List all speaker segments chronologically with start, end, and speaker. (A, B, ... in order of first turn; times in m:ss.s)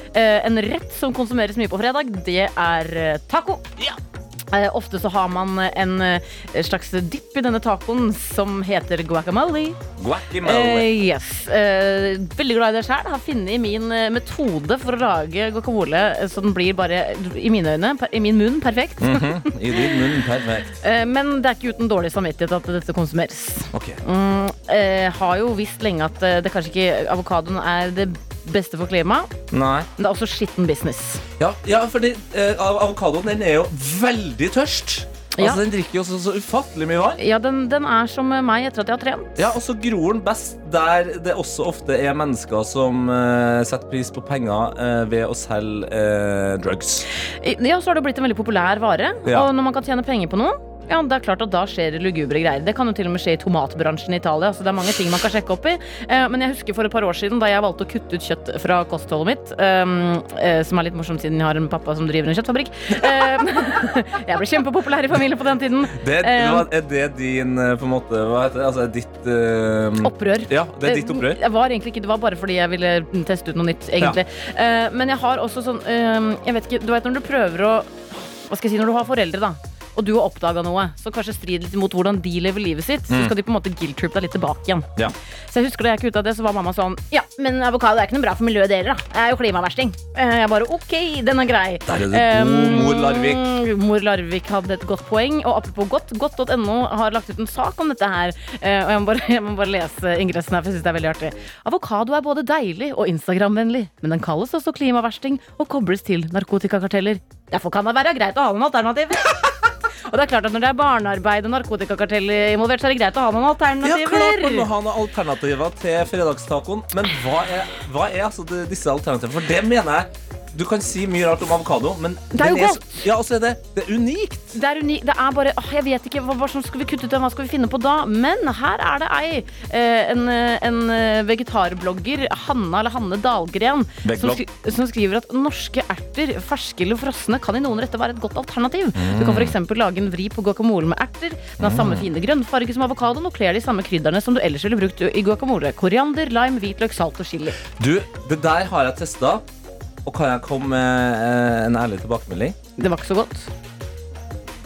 0:00.1-0:03.7 A
0:04.5-0:09.8 A
0:10.0-0:10.9 B
0:10.4-0:20.0 A
0:19.0-0:20.7 B
0:20.8-0:29.3 A
0:23.7-0:24.0 B
0:29.5-0:29.9 B
0:30.0-0:31.2 A
0:31.4-0:37.2 B
0:35.4-0:35.6 A
0:37.2-0:39.4 A
0:39.4-0:47.1 B
0:47.4-1:06.7 A
0:49.2-0:49.5 B
1:05.9-1:11.4 B
1:10.0-1:24.9 A
1:23.1-1:23.3 B
1:25.5-1:49.5 A
1:31.9-1:33.5 B
1:50.0-1:54.7 A
1:53.8-2:04.6 B
2:02.3-2:03.0 A
2:04.5-2:27.6 A
2:14.0-2:14.4 B
2:19.0-2:19.6 B
2:21.6-2:22.1 B
2:27.7-2:29.4 B
2:30.0-2:32.6 B
2:32.8-2:33.5 A